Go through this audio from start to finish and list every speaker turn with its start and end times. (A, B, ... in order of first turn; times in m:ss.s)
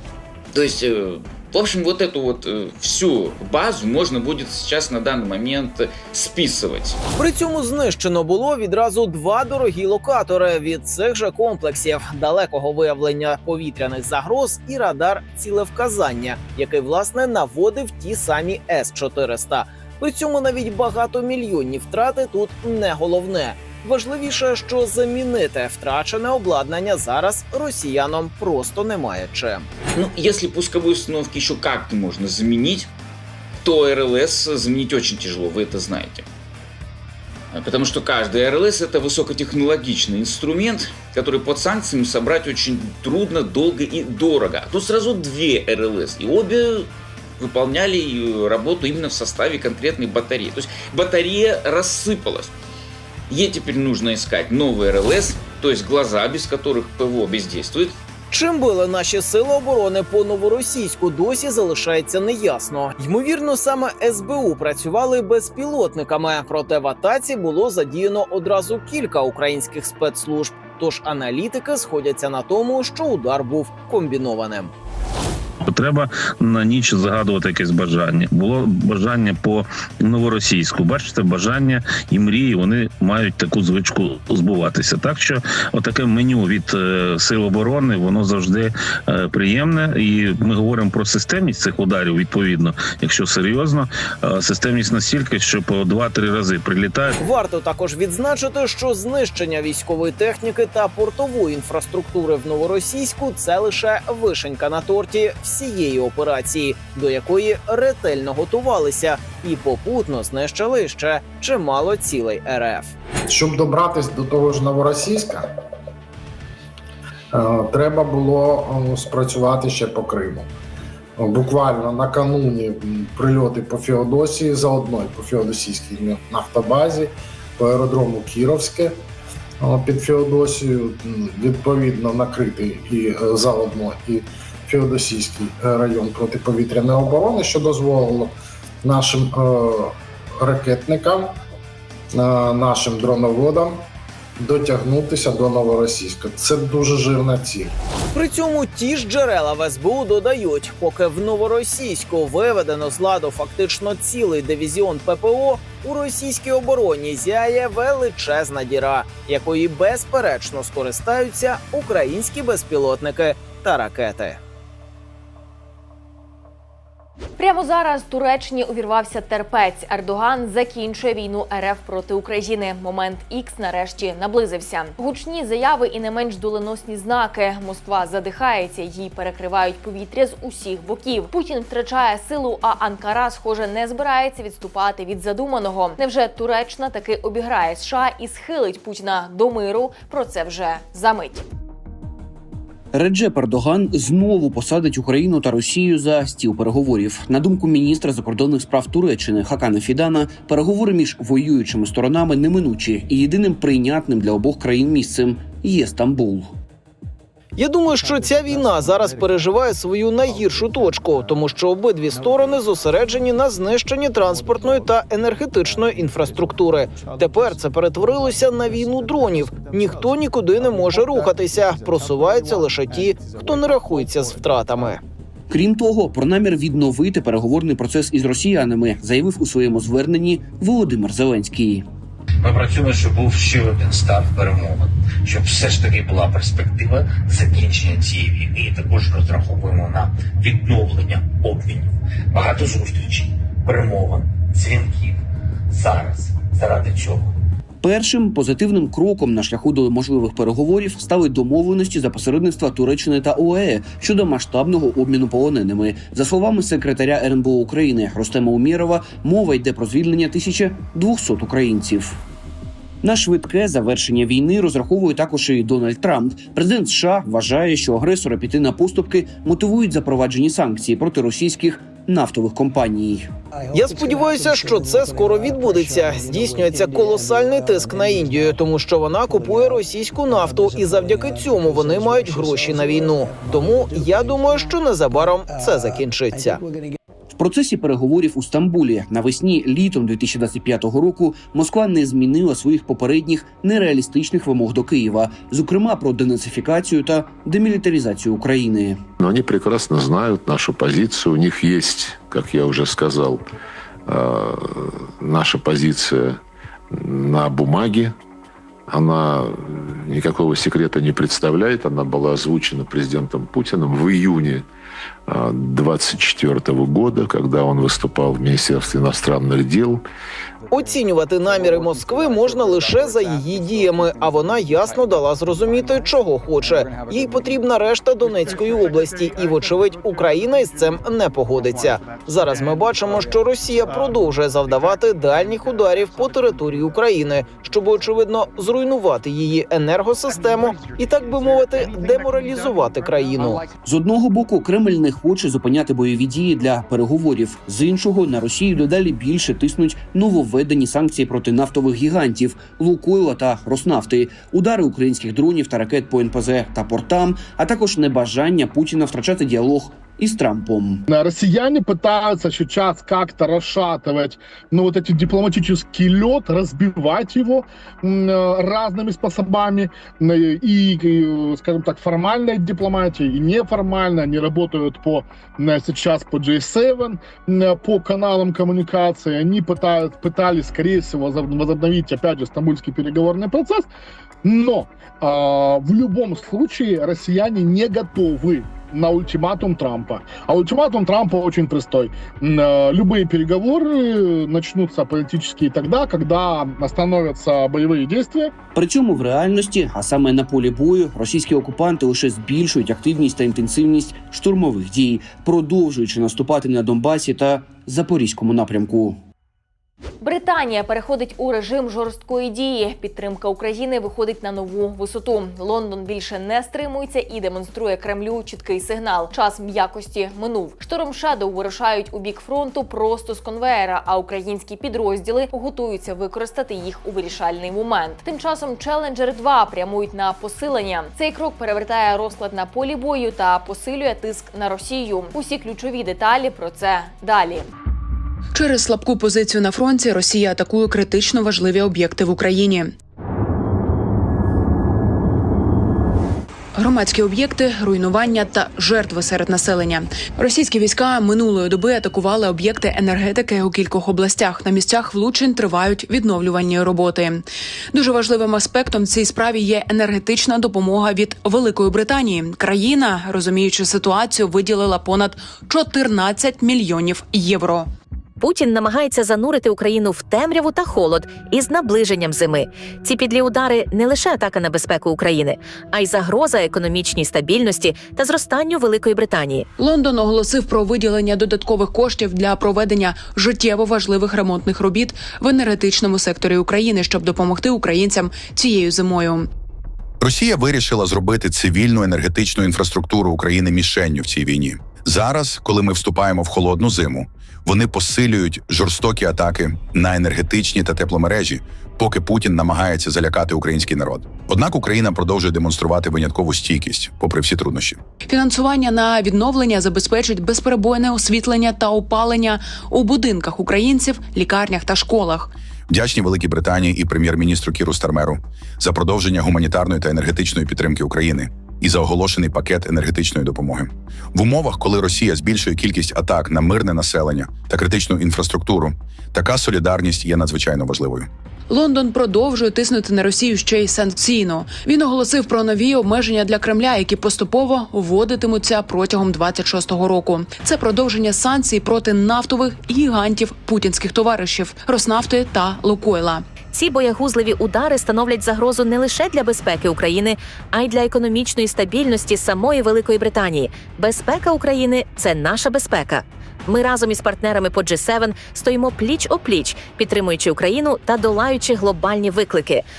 0:00.5-0:07.0 A
0:07.2-0:29.7 B
0:29.9-0:32.9 A
0:33.6-0:36.2 A
0:37.5-0:52.5 A
0:53.3-0:57.9 A
0:58.3-1:14.7 B
1:15.6-1:37.2 C
1:37.2-1:52.9 B
1:53.3-1:55.5 D
1:57.3-2:00.5 D
2:01.2-2:09.0 D
2:09.6-2:21.3 D
2:22.1-2:23.8 D
2:24.4-2:27.7 D
2:28.1-2:44.4 B
2:47.4-3:11.4 E
3:12.9-3:26.5 F
3:27.6-3:45.0 B
3:45.5-3:51.9 F
3:52.4-4:07.3 G
4:07.8-4:22.2 F
4:23.0-4:33.3 F
4:33.7-4:46.6 B
4:47.3-4:59.0 F
4:59.2-5:03.4 H
5:04.0-5:06.4 H
5:06.9-5:08.1 H
5:08.9-5:14.7 H
5:15.3-5:20.0 H
5:20.7-5:43.6 B
5:43.8-6:01.0 F
6:01.1-6:23.9 I
6:24.4-6:38.5 I
6:38.7-6:49.2 F
6:50.2-7:17.7 E
7:18.5-7:22.9 J
7:26.7-7:47.9 J
7:48.4-7:59.7 K
7:59.8-8:09.5 J
8:10.2-8:28.0 L
8:28.2-8:35.5 J
8:35.9-8:51.3 L
8:51.7-9:06.4 J
9:06.7-9:22.8 K